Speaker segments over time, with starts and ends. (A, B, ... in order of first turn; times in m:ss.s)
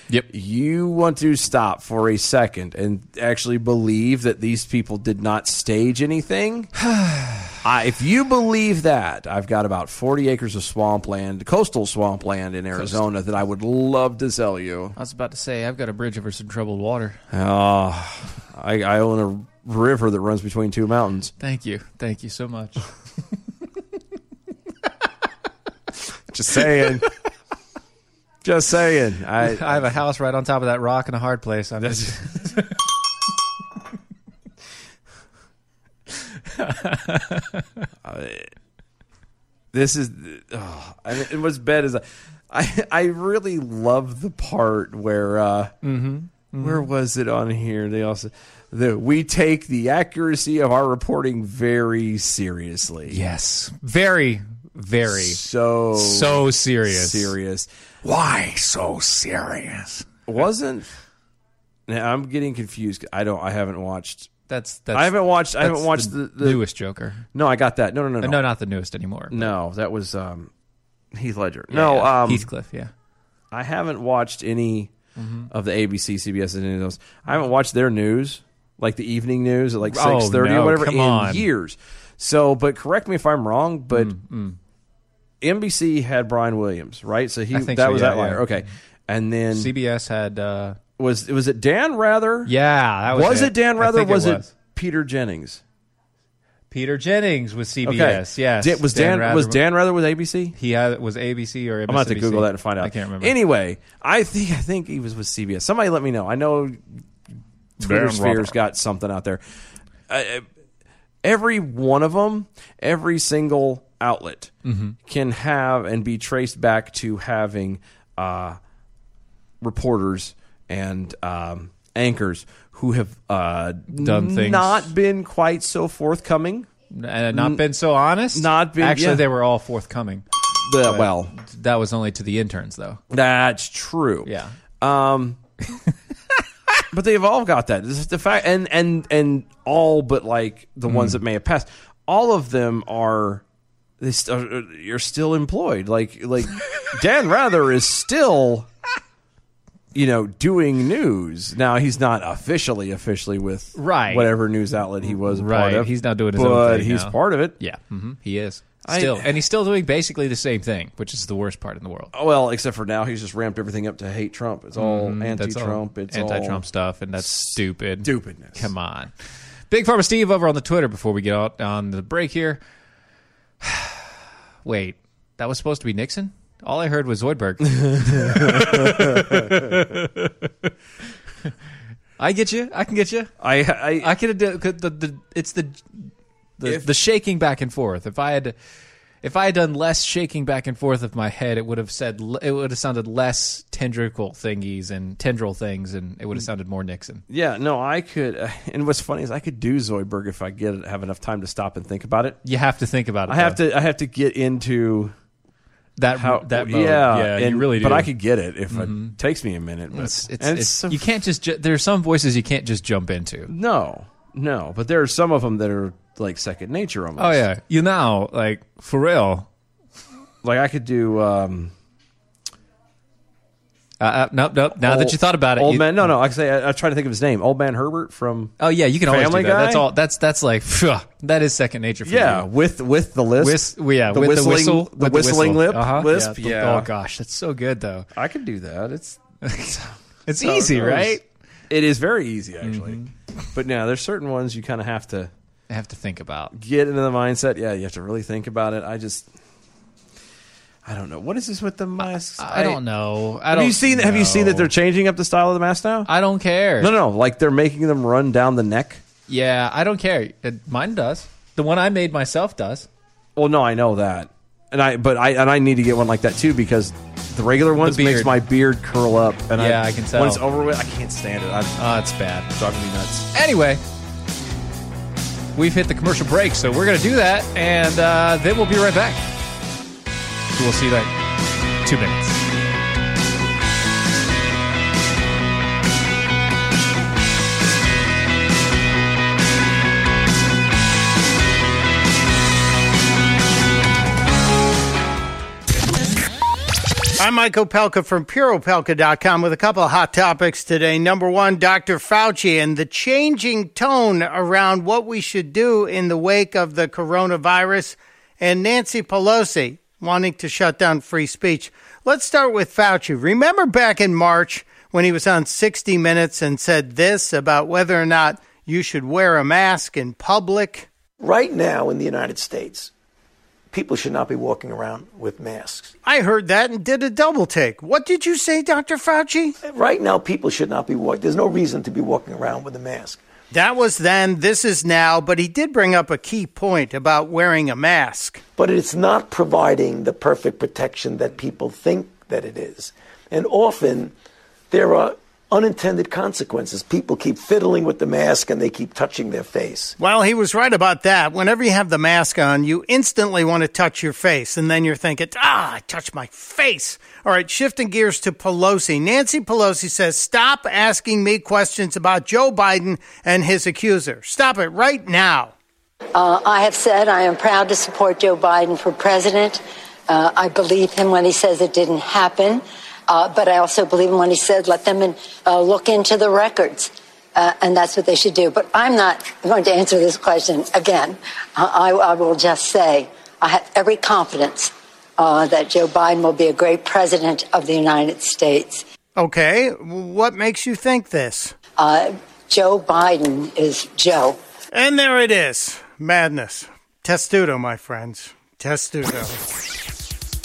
0:00.3-0:06.7 A
0:06.9-0:07.6 B
0:07.6-0:15.0 A
0:15.0-0:17.2 B
0:17.3-0:21.3 A
0:21.4-0:22.8 B
0:26.3-0:27.1 A
0:28.4-0:29.9 A
0:29.4-0:32.7 B
0:31.8-0:32.2 A
0:36.5-0:37.8 B
0:38.0-0:38.5 A
0:39.7-0:45.8 A
0:45.8-0:46.9 B
0:46.6-0:53.2 A
0:53.1-0:55.4 B
0:55.1-0:57.7 A
0:56.0-0:57.3 B
0:58.0-1:00.1 B
1:00.3-1:00.9 A
1:01.9-1:04.3 A
1:04.5-1:07.2 B
1:04.9-1:06.6 A
1:07.3-1:08.4 A
1:08.2-1:09.5 B
1:09.3-1:10.5 A
1:11.1-1:12.5 A
1:11.7-1:12.9 B
1:13.5-1:14.9 A
1:15.2-1:15.5 B
1:15.5-1:24.2 A
1:19.9-1:21.5 B
1:23.9-1:24.6 B
1:25.4-1:29.7 A
1:27.5-1:28.5 B
1:29.5-1:30.8 B
1:31.0-1:32.5 A
1:32.5-1:34.5 B
1:33.1-1:35.6 A
1:36.7-1:39.6 B
1:37.8-1:40.6 A
1:40.6-1:43.4 B
1:41.9-1:47.0 A
1:47.8-1:49.4 A
1:47.8-1:48.6 B
1:50.1-1:50.5 A
1:51.2-1:54.5 A
1:54.6-1:55.0 B
1:55.0-1:58.6 A
1:59.6-2:06.7 A
2:03.9-2:04.9 B
2:06.9-2:10.2 B
2:07.3-2:07.6 A
2:08.3-2:09.3 A
2:10.6-2:11.3 A
2:10.8-2:13.0 B
2:13.1-2:15.4 A
2:14.2-2:14.6 B
2:16.9-2:23.4 A
2:20.9-2:21.2 B
2:24.0-2:28.7 A
2:29.9-2:37.6 A
2:33.8-2:34.3 B
2:35.1-2:42.1 B
2:38.8-2:39.4 A
2:42.1-2:46.6 A
2:44.8-2:49.1 B
2:47.2-2:48.7 A
2:49.7-2:52.6 B
2:53.6-2:54.1 B
2:54.6-3:00.3 B
2:57.7-2:59.7 A
3:02.2-3:03.3 B
3:03.4-3:04.1 A
3:04.0-3:08.6 B
3:06.6-3:06.9 A
3:09.2-3:17.2 B
3:17.3-3:22.4 A
3:22.4-3:23.6 B
3:23.3-3:25.1 A
3:26.0-3:28.1 B
3:26.2-3:31.0 A
3:28.7-3:29.2 B
3:29.9-3:33.5 B
3:33.5-3:37.5 A
3:37.2-3:39.5 B
3:40.4-3:41.7 A
3:44.0-3:46.1 B
3:44.8-3:49.9 A
3:48.6-3:52.5 B
3:52.0-3:56.9 A
3:53.4-3:58.1 B
3:58.2-4:03.0 A
3:59.4-4:01.2 B
4:02.6-4:03.1 B
4:03.5-4:05.3 A
4:05.7-4:06.5 B
4:06.5-4:09.3 A
4:10.8-4:12.8 A
4:12.4-4:14.7 B
4:13.5-4:16.1 A
4:16.1-4:16.9 B
4:16.8-4:19.0 A
4:19.3-4:22.9 B
4:23.4-4:31.8 A
4:27.8-4:28.4 B
4:29.6-4:30.4 B
4:31.8-4:32.5 B
4:32.5-4:33.3 A
4:33.3-4:33.8 B
4:35.6-4:39.3 B
4:40.6-4:41.1 B
4:41.8-4:42.4 B
4:57.2-5:20.9 C
5:21.2-5:22.9 D
5:23.7-5:26.0 D
5:26.0-5:29.6 C
5:29.6-5:33.2 D
5:33.5-5:38.4 C
5:38.6-5:44.1 D
5:44.7-5:50.0 D
5:50.0-6:05.5 C
6:06.1-6:28.8 E
6:29.2-6:31.6 C
6:31.8-6:34.4 E
6:34.7-6:39.4 C